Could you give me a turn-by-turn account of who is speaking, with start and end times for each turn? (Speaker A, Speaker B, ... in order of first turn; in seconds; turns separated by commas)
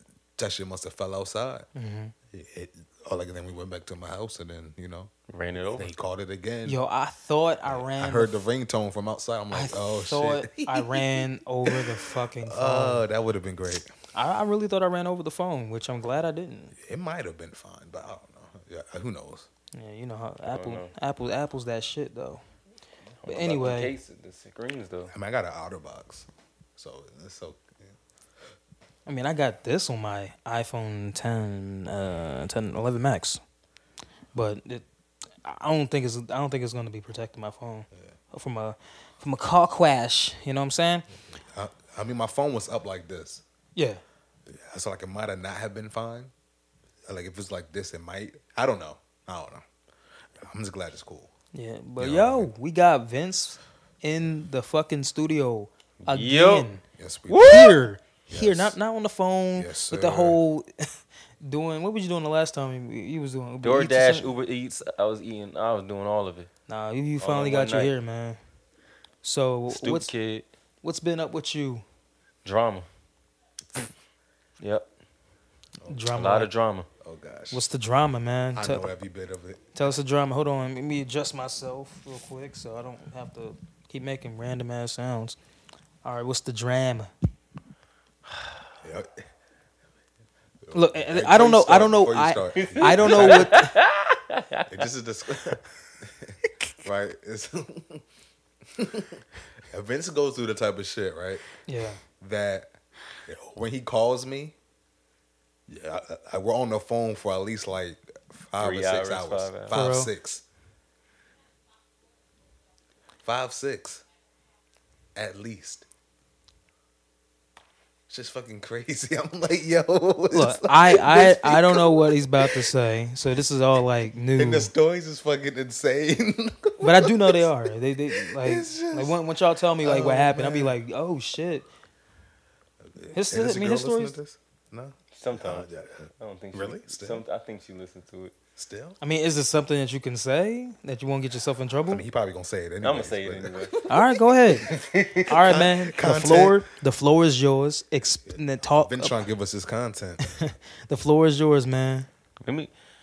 Speaker A: 0.4-1.7, Speaker B: 1.8-2.1, Speaker A: 2.3-5.1, Speaker C: 5.3-5.9, Speaker A: 5.7-6.8, Speaker B: 6.7-8.4, Speaker A: 7.7-13.9, Speaker B: 9.5-13.0, Speaker B: 14.1-16.8, Speaker A: 16.8-19.5, Speaker B: 19.7-22.4, Speaker C: 20.5-20.9, Speaker C: 23.2-25.1, Speaker B: 23.3-23.9, Speaker A: 25.1-27.9, Speaker B: 29.1-33.4, Speaker B: 34.3-34.9, Speaker B: 35.4-41.1, Speaker A: 41.3-43.4, Speaker B: 43.8-44.0, Speaker A: 44.5-46.3, Speaker A: 47.1-49.6, Speaker A: 50.4-51.3, Speaker B: 51.5-56.8, Speaker A: 52.0-52.5, Speaker C: 56.0-56.7, Speaker A: 57.0-57.7, Speaker C: 57.3-57.8, Speaker B: 57.4-60.7, Speaker A: 58.3-58.8, Speaker A: 59.6-60.4, Speaker B: 61.4-64.3, Speaker C: 63.6-66.5, Speaker B: 66.7-68.4, Speaker C: 67.2-67.9, Speaker B: 69.2-70.1, Speaker C: 69.7-70.5, Speaker B: 70.8-71.8, Speaker C: 72.5-72.9, Speaker C: 74.6-74.9, Speaker B: 75.9-76.5, Speaker C: 76.1-76.9, Speaker A: 77.0-77.6, Speaker B: 77.5-78.9, Speaker A: 78.5-79.7, Speaker B: 79.8-85.4, Speaker B: 86.0-87.1, Speaker A: 88.8-89.3, Speaker A: 90.6-93.6, Speaker B: 90.7-93.7, Speaker C: 92.6-94.8, Speaker A: 94.7-98.0, Speaker A: 98.8-101.4, Speaker B: 101.7-102.0, Speaker A: 102.2-102.7, Speaker A: 103.3-104.5, Speaker A: 105.7-110.4, Speaker C: 108.6-109.8, Speaker B: 109.7-110.1, Speaker A: 113.2-114.0, Speaker A: 115.2-115.9, Speaker A: 118.1-122.7, Speaker B: 120.3-124.7, Speaker A: 124.4-127.5, Speaker B: 126.8-131.7, Speaker A: 128.2-129.2, Speaker A: 129.8-130.8, Speaker A: 132.9-137.2, Speaker B: 133.1-134.2, Speaker C: 135.1-135.7, Speaker C: 136.2-138.3, Speaker A: 138.6-139.0, Speaker B: 139.0-142.0, Speaker A: 141.9-144.1, Speaker C: 142.8-143.8, Speaker B: 143.9-144.7, Speaker C: 144.6-145.4, Speaker B: 145.3-149.2, Speaker A: 145.4-146.6, Speaker A: 148.3-150.3, Speaker B: 150.3-152.1, Speaker C: 152.4-152.7